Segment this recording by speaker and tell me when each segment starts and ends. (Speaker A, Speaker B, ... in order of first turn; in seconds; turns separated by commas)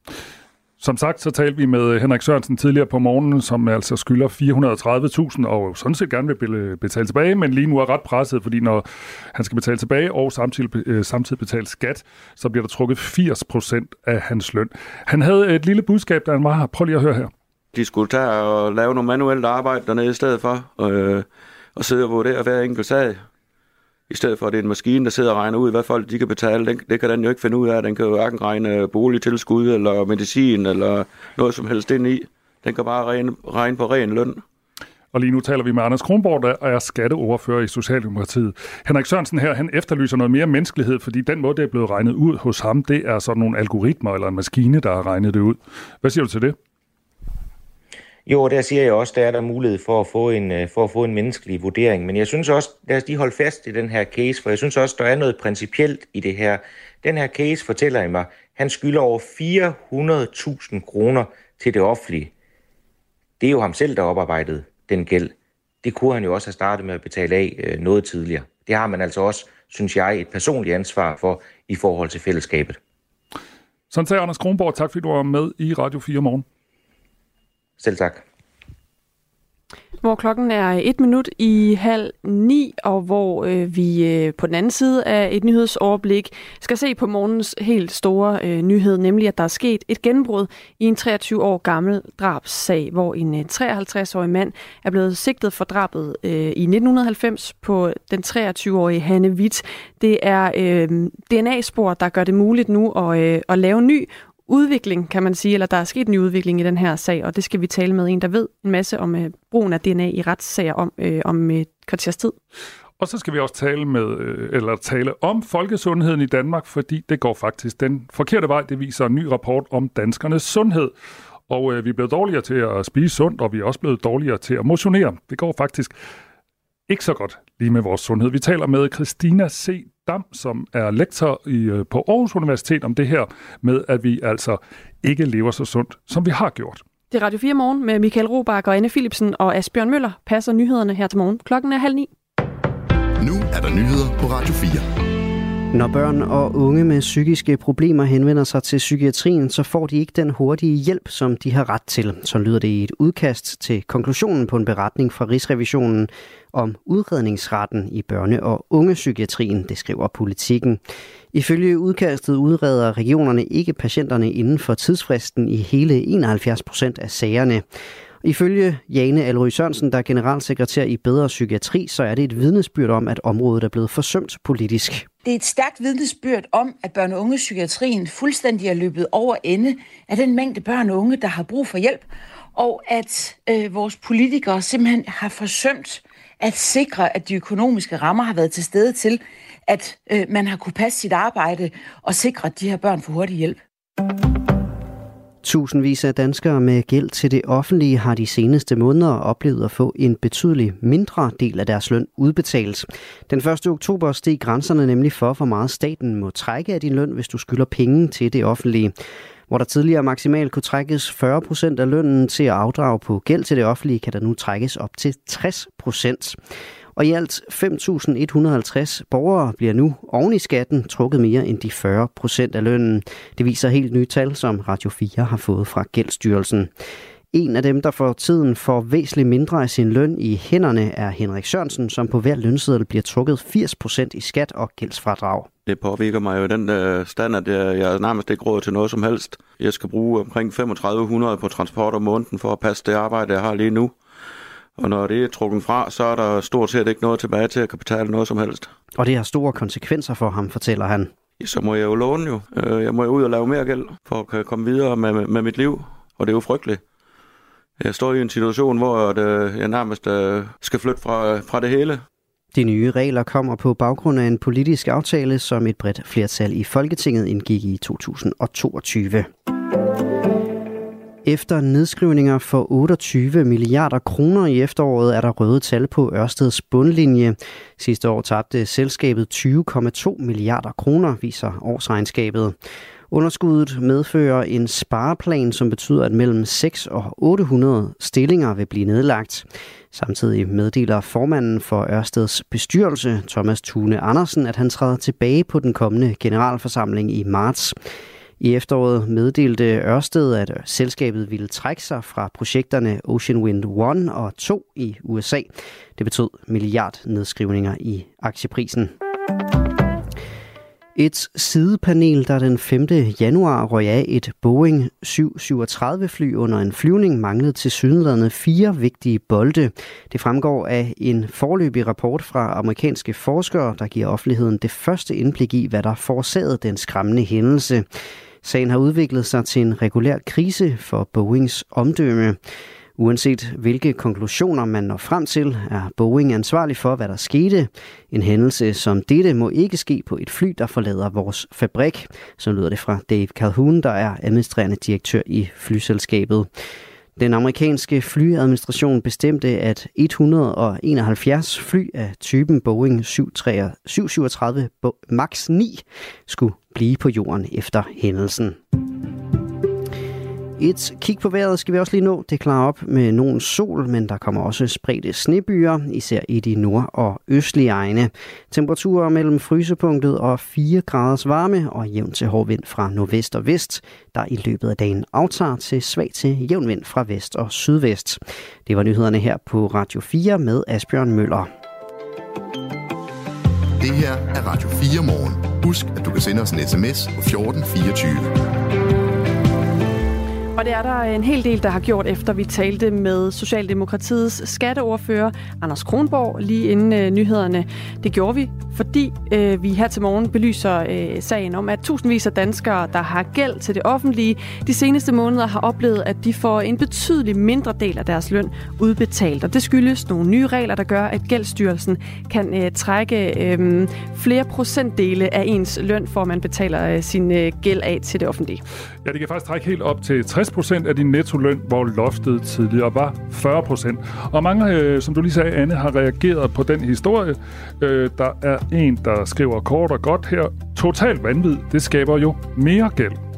Speaker A: 0.8-17.3, Speaker B: 17.7-23.2, Speaker B: 24.1-34.4, Speaker A: 35.1-46.5, Speaker C: 48.2-62.3, Speaker C: 63.4-72.8, Speaker A: 73.9-76.4, Speaker C: 77.8-78.2, Speaker D: 80.0-112.3, Speaker A: 113.0-120.9, Speaker A: 121.5-125.9, Speaker A: 126.9-136.8, Speaker D: 137.1-142.1, Speaker E: 143.2-144.9, Speaker F: 145.7-160.8, Speaker F: 161.3-167.6, Speaker F: 168.2-175.1, Speaker G: 175.2-193.6, Speaker F: 195.4-208.9, Speaker F: 209.5-216.4, Speaker F: 216.9-226.7, Speaker F: 227.3-235.5, Speaker B: 235.7-243.9, Speaker B: 244.8-248.7, Speaker F: 249.0-251.1, Speaker B: 251.4-256.8, Speaker B: 257.8-262.0, Speaker F: 262.5-269.3, Speaker F: 271.2-282.5, Speaker F: 283.1-297.8, Speaker F: 298.4-308.9, Speaker F: 310.9-327.9, Speaker F: 328.4-332.4, Speaker F: 333.0-346.5, Speaker F: 347.2-358.6, Speaker F: 360.6-381.5, Speaker E: 383.8-388.3, Speaker D: 390.6-418.6, Speaker A: 419.0-433.2